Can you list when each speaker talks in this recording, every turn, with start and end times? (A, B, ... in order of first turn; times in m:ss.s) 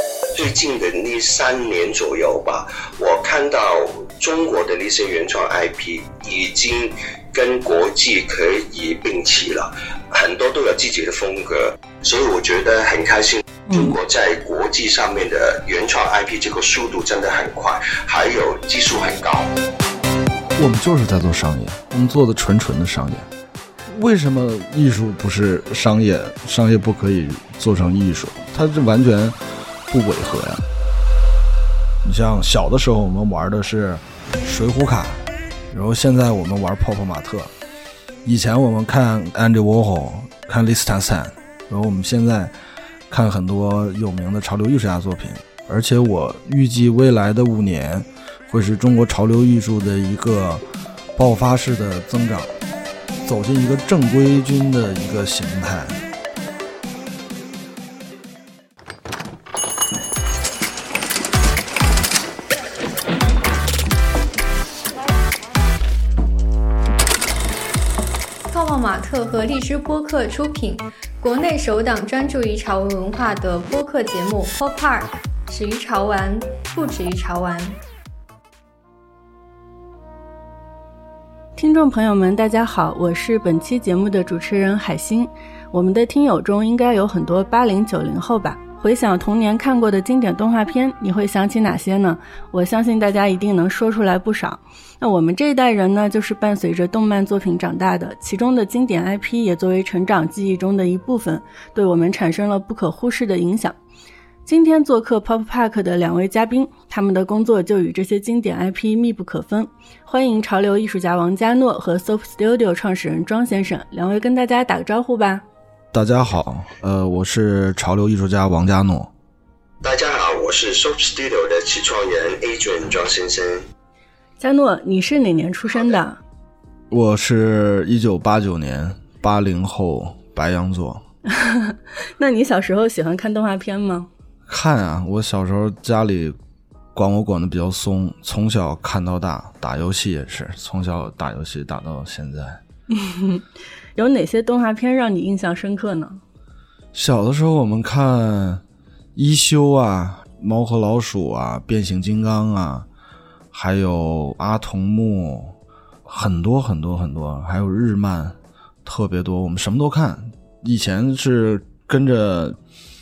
0:00.4-0:19.5 A
0:13.7-0:14.0 B
0:20.6-0:23.3 C
0:23.9-0:29.4 C
0:29.9-0:30.6 C
0:32.0-0:37.5 C
0:38.2-0:42.5 C
0:43.1-0:50.6 C
0:51.2-0:52.5 C
0:53.2-0:56.0 C
1:08.5-1:17.8 D
1:21.6-1:43.8 B
1:44.5-1:55.4 B
1:55.9-1:59.1 C
1:59.8-2:03.7 A
2:04.4-2:06.2 B
2:06.9-2:11.0 C
2:11.3-2:14.1 B
2:14.5-2:16.4 C
2:17.0-2:22.6 C
2:22.9-2:26.2 B
2:26.9-2:28.6 C
2:29.2-2:32.9 C
2:33.5-2:35.6 C
2:36.1-2:42.6 C